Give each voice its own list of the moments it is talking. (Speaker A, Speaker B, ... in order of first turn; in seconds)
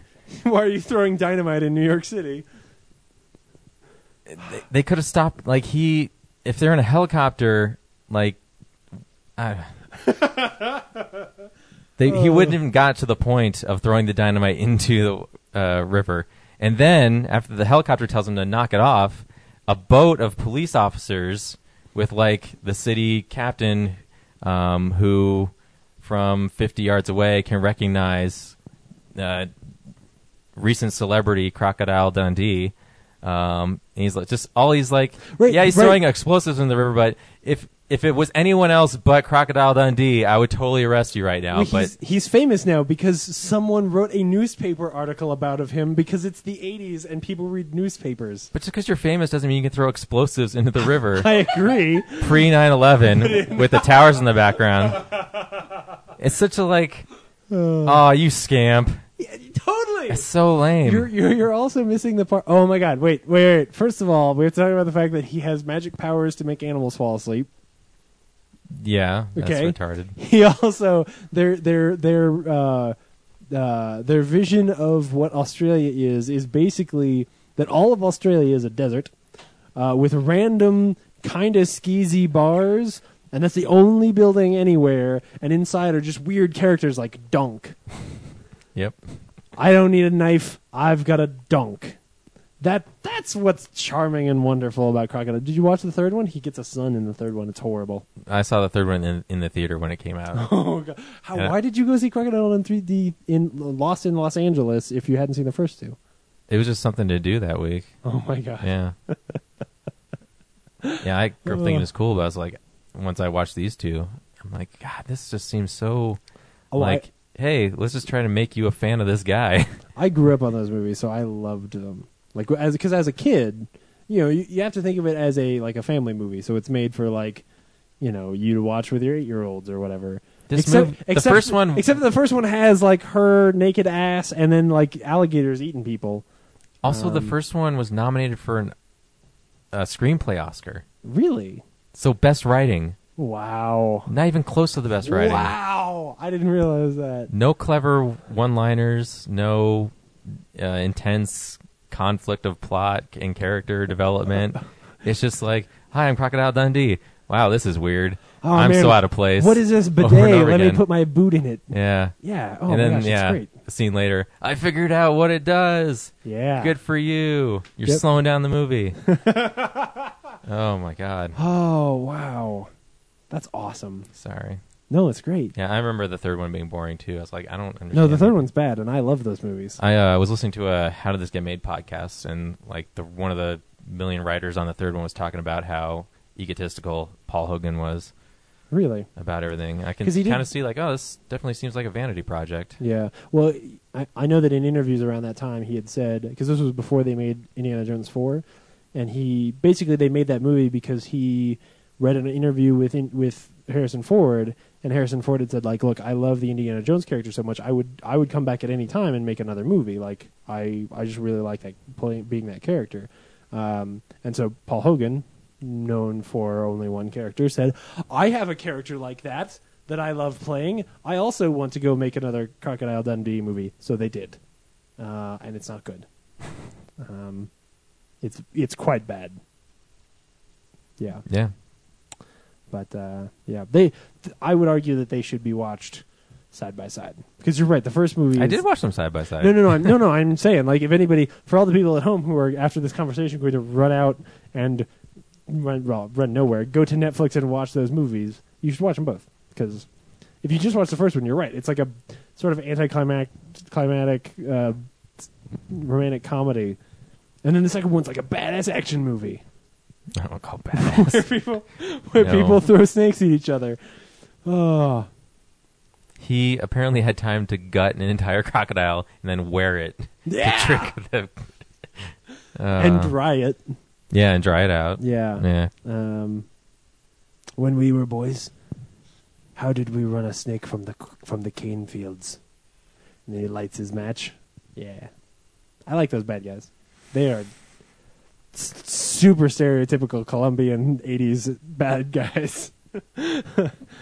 Speaker A: 0.3-2.5, 10.0-10.8, 12.1-12.6, 35.4-36.0, 41.5-48.5, 51.1-52.5, 53.1-54.2, 54.9-55.7, 57.5-58.0, 59.2-60.2, 60.8-67.5, 69.4-73.0, 73.5-79.1, 79.8-87.8, 89.6-92.0, 92.6-98.1, 100.3-106.0, 108.0-109.4, 110.8-111.8, 116.7-117.0, 120.0-127.4, 128.0-136.2, 136.8-137.3, 141.0-141.6, 143.2-144.1, 145.1-147.3, 158.4-163.5, 166.2-166.8, 169.1-170.1, 171.3-172.7, 173.3-174.1, 174.9-175.5, 177.9-179.8, 188.7-189.1, 190.0-190.5, 192.8-224.4, 225.0-227.5, 228.2-229.4, 231.0-231.2, 232.7-238.6, 239.4-244.9, 245.5-249.9, 250.4-256.8, 257.4-259.4, 260.7-263.8, 264.4-265.1, 270.3-270.9, 272.8-273.7, 275.0-276.5, 277.6-278.5, 279.6-282.4, 283.3-285.1, 285.9-287.5, 288.5-293.8
Speaker B: 4.3-8.4, 9.4-9.7, 12.0-28.6, 29.1-29.5, 30.6-41.9, 48.5-51.4, 52.2-55.1, 56.2-57.1, 57.9-59.0, 60.1-61.1, 68.8-70.2, 98.3-100.5, 106.5-107.9, 108.6-109.0, 111.0-116.2, 116.8-119.8, 130.5-132.0, 136.8-138.7, 139.7-140.8, 141.9-143.0, 144.1-145.5, 147.3-149.9, 150.6-160.8, 161.7-162.2, 162.7-169.0, 170.4-171.4, 174.2-174.6, 175.6-178.4, 179.8-188.1, 189.2-192.8, 238.4-239.9, 260.2-261.3, 262.2-262.7, 266.2-273.1, 274.1-275.7